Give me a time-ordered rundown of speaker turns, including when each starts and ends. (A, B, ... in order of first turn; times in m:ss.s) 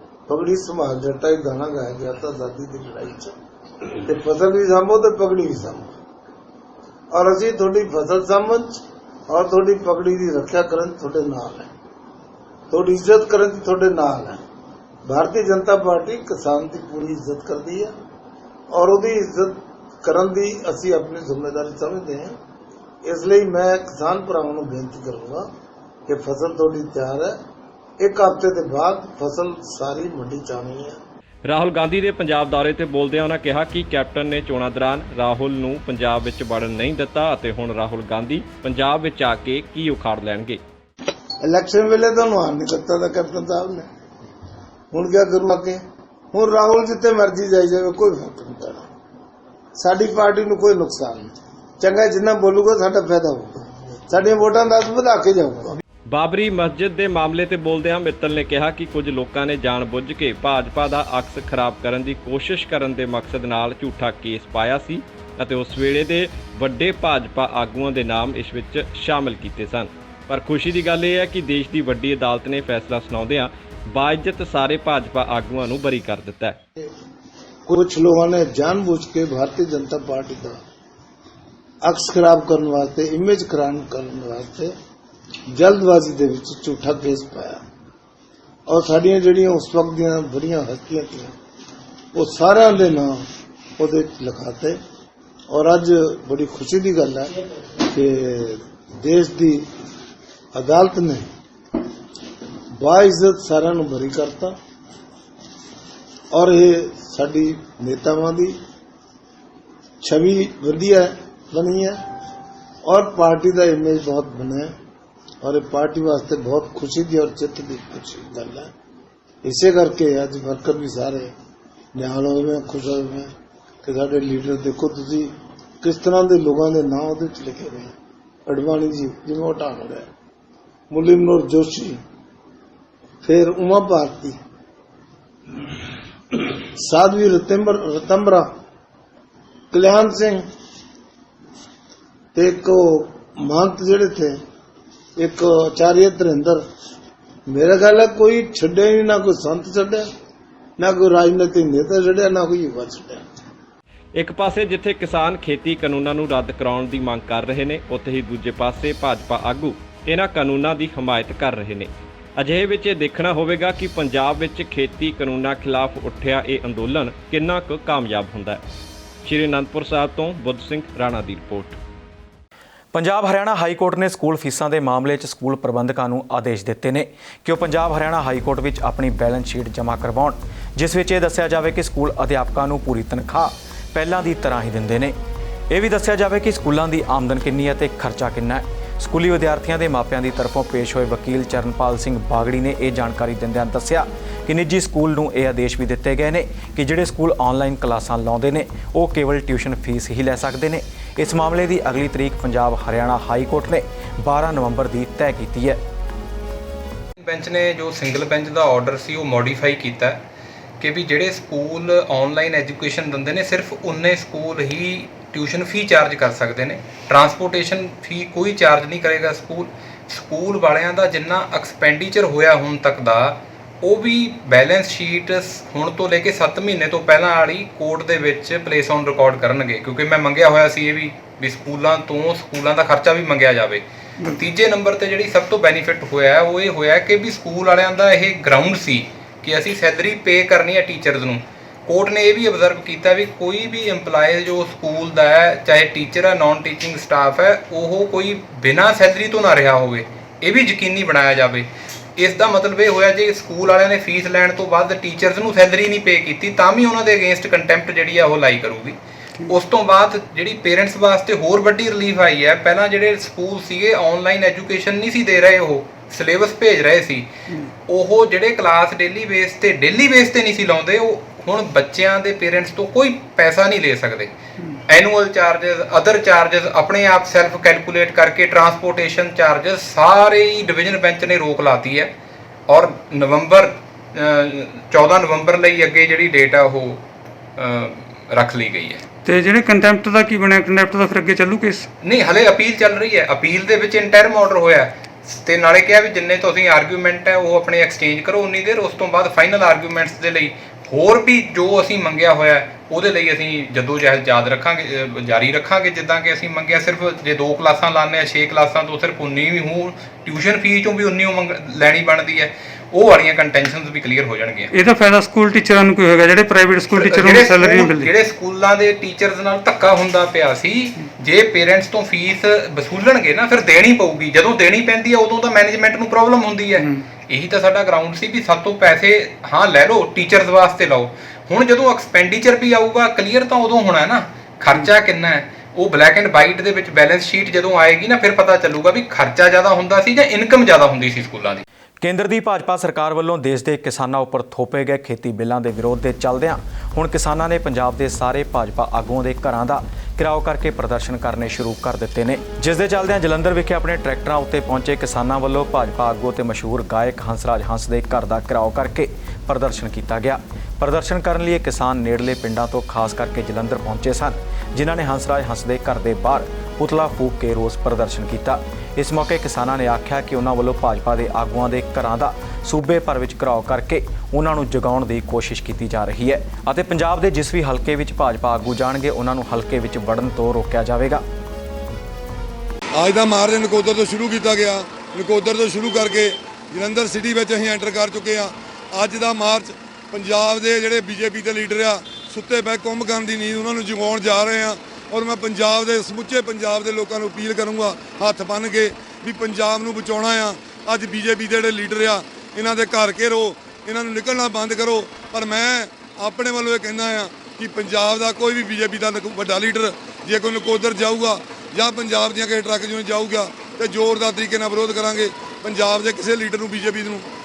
0:00.3-0:03.3 A
0:04.0-0:05.9 A
0:07.1-0:11.7 A
0:12.7-0:14.4 A
0:15.0-0:17.9 A
0:18.7-0:22.3 A
0:23.0-0:25.5 A
0:26.1-0:27.4 A
0:28.0-0:31.0 A
0:31.4-0:40.6 B
0:41.4-0:43.9 A
0:44.9-0:45.8 A
0:46.3-0:48.8 A
0:49.8-0:55.8 A
0:56.1-1:16.6 B
1:17.7-1:20.6 A
1:21.8-1:24.7 A
1:25.5-1:27.6 A
1:28.7-1:31.3 A
1:32.1-1:33.2 A
1:33.8-1:34.8 A
1:35.5-1:37.3 A
1:37.8-1:39.6 A
1:40.5-1:41.2 A
1:42.8-1:44.6 A
1:46.3-1:48.5 A
1:50.0-1:52.0 A
1:52.8-1:54.7 A
1:55.4-1:58.7 A
1:59.4-2:01.3 A
2:01.9-2:03.3 A
2:03.8-2:05.3 A
2:05.8-2:07.9 A
2:08.4-2:10.0 A
2:10.9-2:12.0 A
2:13.2-2:14.4 A
2:16.3-2:18.5 A
2:19.7-2:20.4 A
2:22.3-2:24.4 A
2:25.2-2:26.6 A
2:27.5-2:30.1 A
2:30.8-2:33.2 A
2:34.2-2:48.6 B
2:49.2-2:51.8 B
2:52.9-3:05.2 C
3:05.7-3:25.8 C
3:27.2-3:30.2 D
3:30.8-4:19.0 D
4:19.5-4:27.3 D
4:27.8-4:34.3 D
4:34.9-4:42.1 D
4:42.7-4:47.0 D
4:47.6-4:49.0 D
4:49.2-4:51.9 E
4:52.0-5:14.7 D
5:14.7-5:18.1 E
5:16.9-5:41.6 D
5:26.8-5:27.0 E
5:42.0-6:21.2 C
6:23.0-6:57.3 F